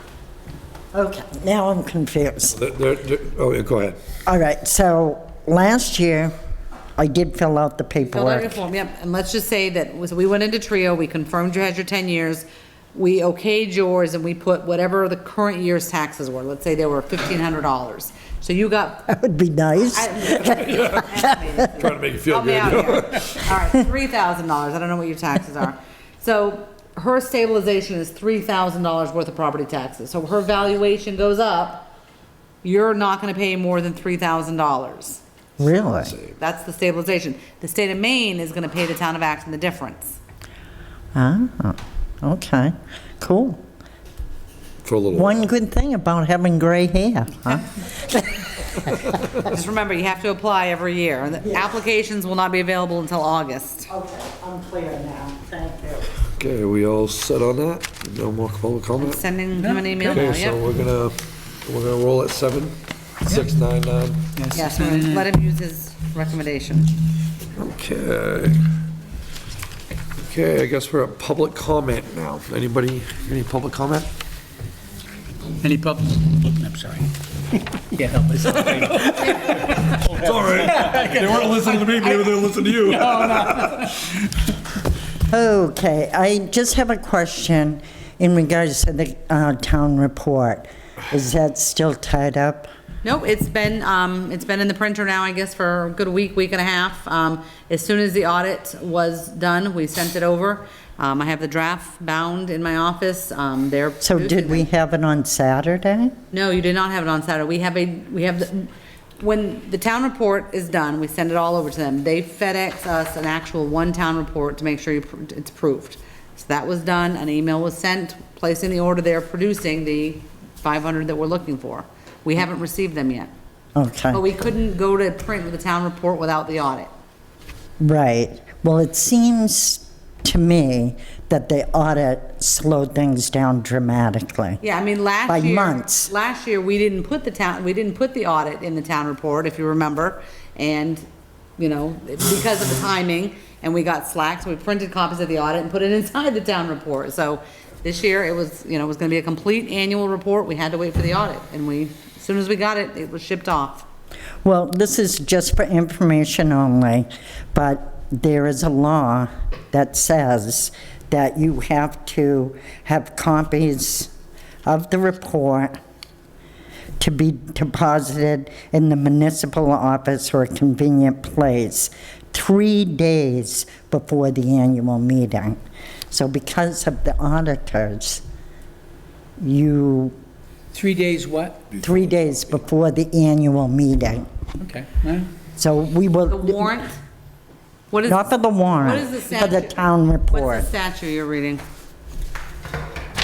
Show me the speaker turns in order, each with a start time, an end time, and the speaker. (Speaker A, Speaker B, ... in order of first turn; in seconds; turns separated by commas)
Speaker A: 0.9-2.6, Speaker B: 2.5-4.0, Speaker A: 4.2-6.3, Speaker A: 7.0-8.6, Speaker C: 8.1-19.1, Speaker A: 19.1-21.7, Speaker C: 19.9-31.9, Speaker B: 20.5-20.9, Speaker B: 21.7-23.3, Speaker C: 32.6-35.2, Speaker A: 35.6-36.1, Speaker B: 36.0-36.3, Speaker C: 36.4-40.2, Speaker A: 41.1-43.6, Speaker B: 44.8-45.5, Speaker A: 45.1-48.3, Speaker C: 49.4-53.9, Speaker A: 53.9-56.1, Speaker B: 56.4-59.2, Speaker C: 59.0-60.6, Speaker D: 59.5-60.2, Speaker B: 60.1-64.3, Speaker D: 64.3-65.3, Speaker C: 64.5-66.9, Speaker B: 67.6-68.7, Speaker B: 70.2-74.1, Speaker D: 75.6-84.1, Speaker B: 78.4-83.9, Speaker A: 85.3-92.7, Speaker C: 93.0-104.7, Speaker A: 104.0-106.1, Speaker C: 106.3-123.3, Speaker A: 123.8-124.2, Speaker C: 124.1-126.9, Speaker A: 127.8-134.6, Speaker C: 134.6-141.0, Speaker A: 135.3-136.1, Speaker C: 141.6-153.8, Speaker A: 154.4-164.1, Speaker A: 164.7-165.8, Speaker A: 167.0-178.2, Speaker A: 179.4-180.1, Speaker D: 180.7-181.8, Speaker A: 181.8-184.3, Speaker D: 184.6-185.3, Speaker A: 185.6-186.7, Speaker C: 186.3-186.9, Speaker C: 187.9-191.6, Speaker A: 188.1-190.7